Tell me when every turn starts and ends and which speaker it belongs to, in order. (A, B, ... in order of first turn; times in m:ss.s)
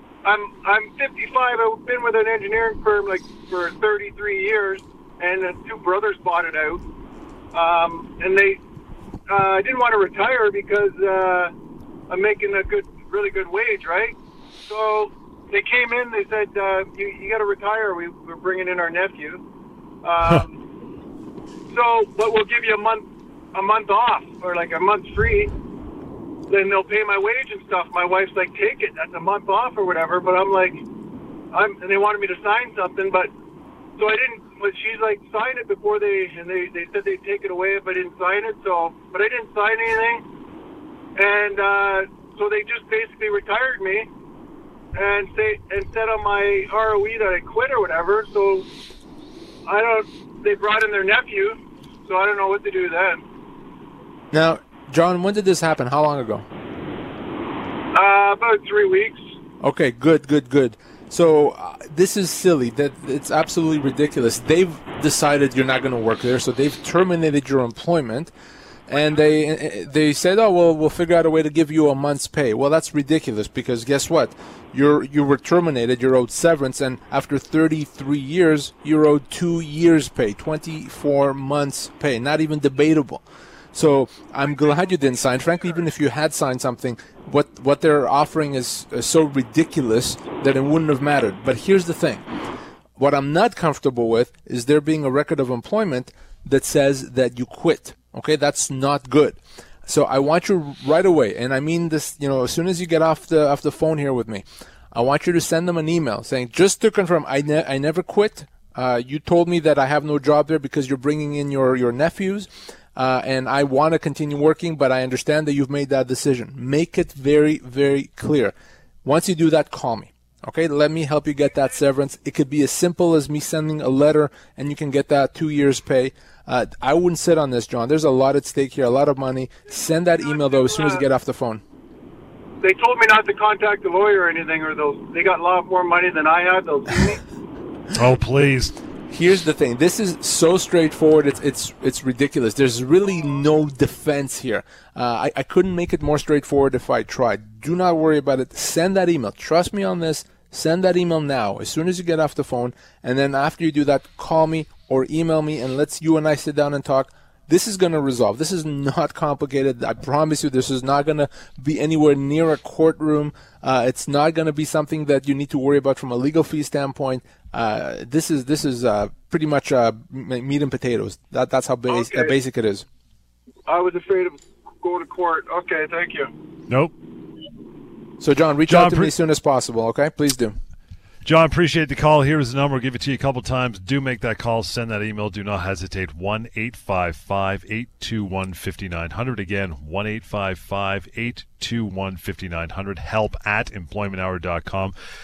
0:00.2-0:06.8 A
0:07.5-0:08.6 A
0:09.3-0:11.5 A
0:12.1-0:14.2 A
0:14.7-0:19.4 A
0:20.0-0:20.6 A
0:21.7-0:25.5 A
0:26.5-0:30.8 A
0:31.5-0:33.3 A
0:34.0-0:40.2 A
0:41.2-0:44.1 A
0:44.9-0:48.7 A
0:49.7-0:53.2 A
0:54.3-0:56.4 B
0:57.9-0:59.2 A
0:59.6-1:08.3 B
1:08.9-1:32.2 B
1:33.0-2:11.6 B
2:10.2-2:11.0 A
2:12.6-2:17.2 A
2:17.9-2:18.7 C
2:19.1-2:52.8 B
2:51.9-2:52.3 A
2:53.7-2:56.3 A
2:56.7-2:56.9 C
2:58.2-3:00.6 B
2:58.7-2:59.1 C
3:01.2-3:14.9 C